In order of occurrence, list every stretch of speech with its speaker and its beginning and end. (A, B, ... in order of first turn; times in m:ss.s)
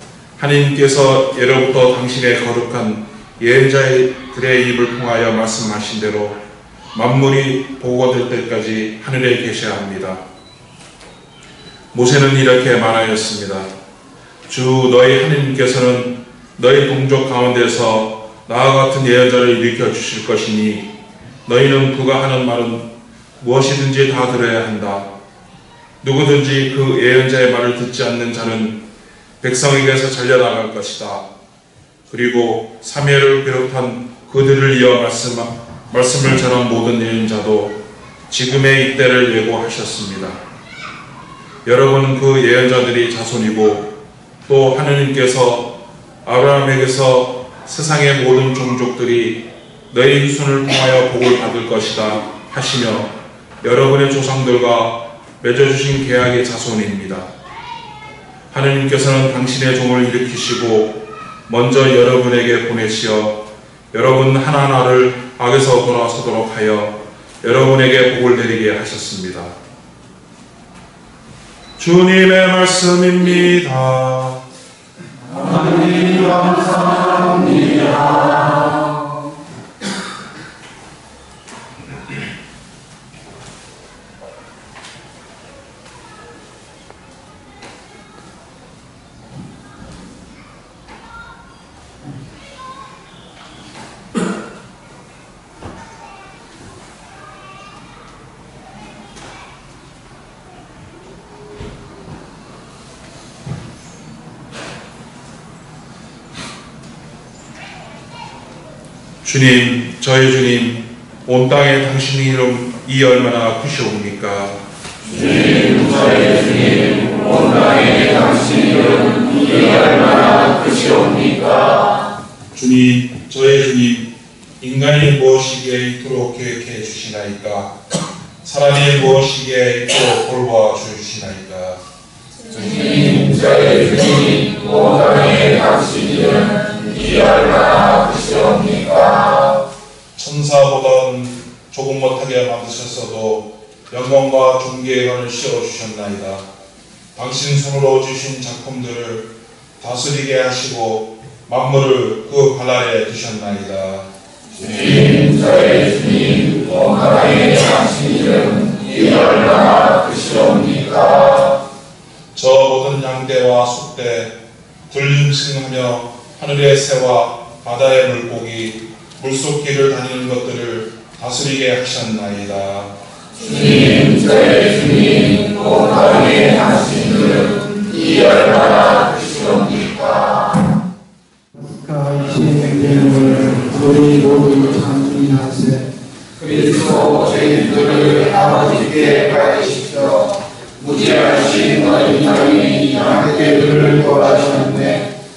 0:00.4-0:06.4 A
0:06.9-0:10.2 A
0:11.9-0:13.7 A
0:14.5-0:20.9 A
0:21.4-0:22.8 A
0:23.4-0:25.0 A
0:26.0-0:28.8 A
0:29.4-0:31.2 A
0:32.1-0:37.8 A
0:38.3-0:40.4 A
0:41.6-0:43.9 A
0:44.5-0:45.7 A
0:46.2-0:57.3 A
0:58.5-1:09.5 A
1:11.8-1:14.4 A
1:15.5-1:17.9 B
1:49.2-1:54.5 A
1:55.1-2:01.8 B
2:02.5-2:07.8 A
2:08.4-2:11.8 A
2:12.6-2:19.3 B
2:20.2-2:26.4 A
2:27.1-2:34.0 A
2:34.6-2:41.5 B
2:42.3-2:44.4 A
2:44.9-2:52.9 A
2:53.4-3:00.0 B
3:01.5-3:05.9 C
3:06.4-3:10.2 B
3:10.8-3:15.0 B